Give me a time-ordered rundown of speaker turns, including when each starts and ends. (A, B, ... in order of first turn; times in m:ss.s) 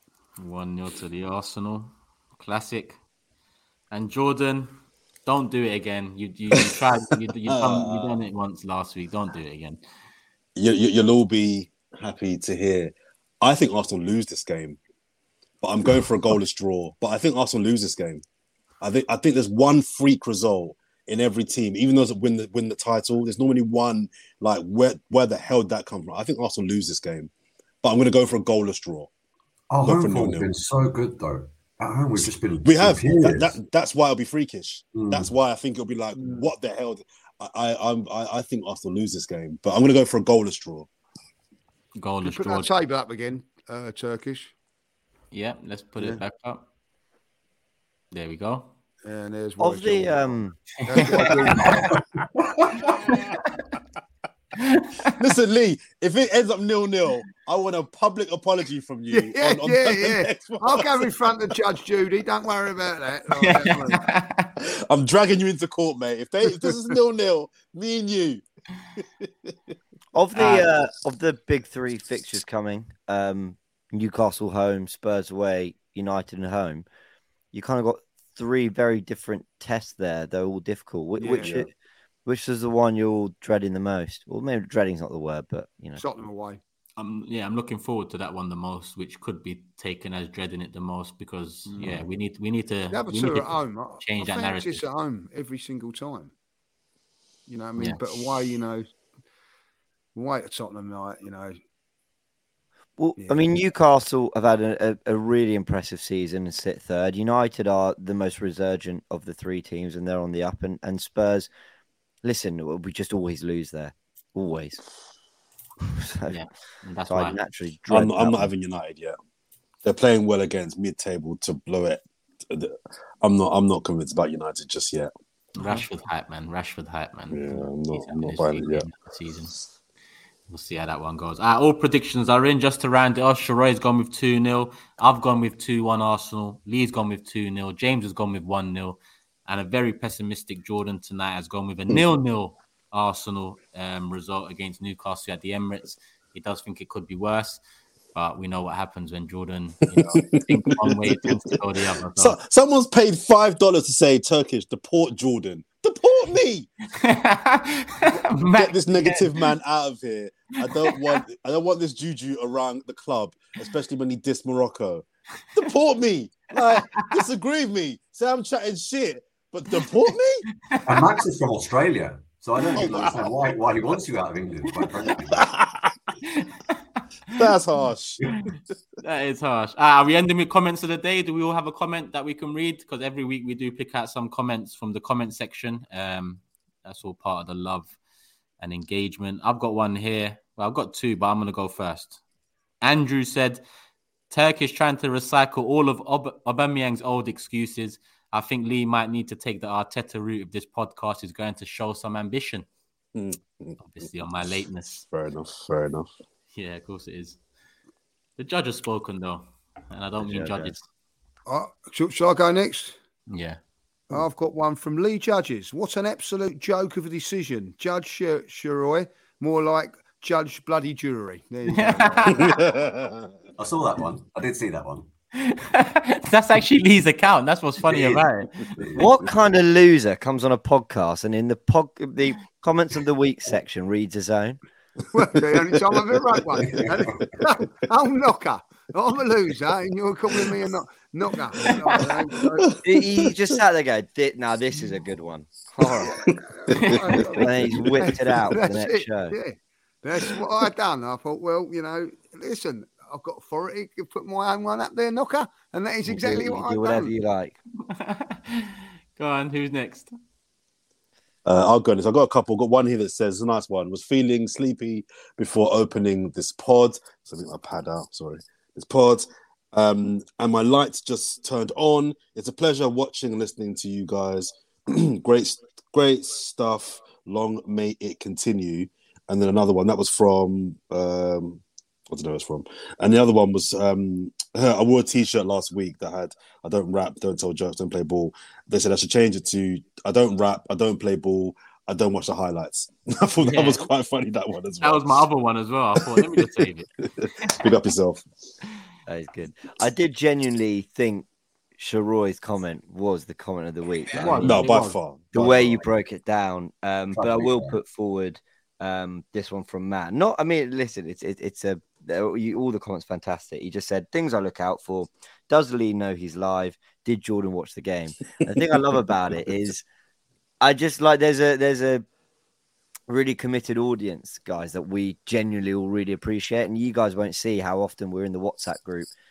0:00.4-0:03.0 A
0:03.9-0:04.7 A
0:05.3-0:09.8 A
0:07.5-0:08.2 B
0:10.6-0:14.8 B
0:15.6-0:18.2 B
0:18.8-0:27.3 B
0:27.8-0:29.1 B
0:29.7-0:33.6 C
0:29.8-0:30.5 B
0:32.6-0:40.9 B
0:34.9-0:35.3 C
0:36.1-0:36.5 D
0:42.0-0:42.7 A
0:42.2-0:44.5 D
0:45.3-0:46.6 A
0:48.1-0:48.7 A
0:49.0-0:52.0 D
0:49.6-0:50.6 E
0:52.7-0:53.0 D
0:54.6-0:55.1 A
0:55.2-1:01.1 B
0:59.1-1:04.1 D
1:03.4-1:04.5 A
1:04.6-1:08.4 B
1:06.4-1:06.8 D
1:09.0-1:09.3 B
1:10.1-1:16.8 E
1:10.3-1:10.6 A
1:17.5-1:21.7 E
1:21.2-1:21.7 D
1:22.3-1:26.0 E
1:26.0-1:26.6 D
1:27.0-1:34.8 A
1:31.7-1:32.0 D
1:32.9-1:36.3 D
1:37.5-1:38.8 D
1:40.1-1:41.6 D
1:43.0-1:51.5 E
1:52.2-1:54.8 E
1:55.9-1:56.4 E
1:56.3-1:57.4 A
1:57.1-1:58.5 E
1:57.9-1:59.1 B
1:59.8-2:05.8 B
2:05.6-2:09.6 A
2:07.3-2:08.9 B
2:10.5-2:27.6 A
2:28.1-2:32.4 A
2:30.1-2:31.4 B
2:32.2-2:36.7 B
2:37.0-2:39.5 A
2:38.5-2:50.4 B
2:40.8-2:41.2 A
2:46.7-2:47.2 A
2:50.7-2:51.0 A
2:50.8-2:55.4 C
2:52.7-2:53.2 B
2:55.3-2:55.9 B
2:56.3-2:56.7 A
2:57.3-2:58.5 B
2:59.0-3:08.0 A
3:08.6-3:12.2 A
3:12.8-3:13.6 A
3:14.3-3:22.6 A
3:23.1-3:24.1 B
3:23.8-3:25.0 A
3:25.0-3:26.1 B
3:26.6-3:27.4 A
3:28.4-3:30.8 A
3:30.2-3:30.7 E
3:31.5-3:33.0 D
3:33.3-3:33.6 A
3:34.1-3:42.6 D
3:41.7-3:42.6 A
3:42.3-3:43.3 B
3:43.6-3:45.1 C
3:45.4-3:48.5 A
3:48.8-3:49.1 C
3:49.0-3:54.6 E
3:55.1-4:02.7 D
4:01.6-4:02.0 B
4:02.6-4:03.3 B
4:02.8-4:06.2 E
4:06.0-4:17.1 D
4:06.0-4:08.4 B
4:06.8-4:07.1 A
4:07.4-4:09.4 E
4:16.1-4:17.6 E
4:17.9-4:20.1 A
4:21.4-4:55.2 B
4:53.4-4:53.8 A
4:54.8-4:56.9 A
4:56.0-4:56.4 B
4:57.0-4:58.2 B
4:59.1-5:04.6 E
5:04.2-5:05.0 A
5:04.2-5:05.8 B
5:05.3-5:19.8 E
5:07.1-5:07.8 C
5:20.6-5:22.0 E
5:23.1-5:29.1 E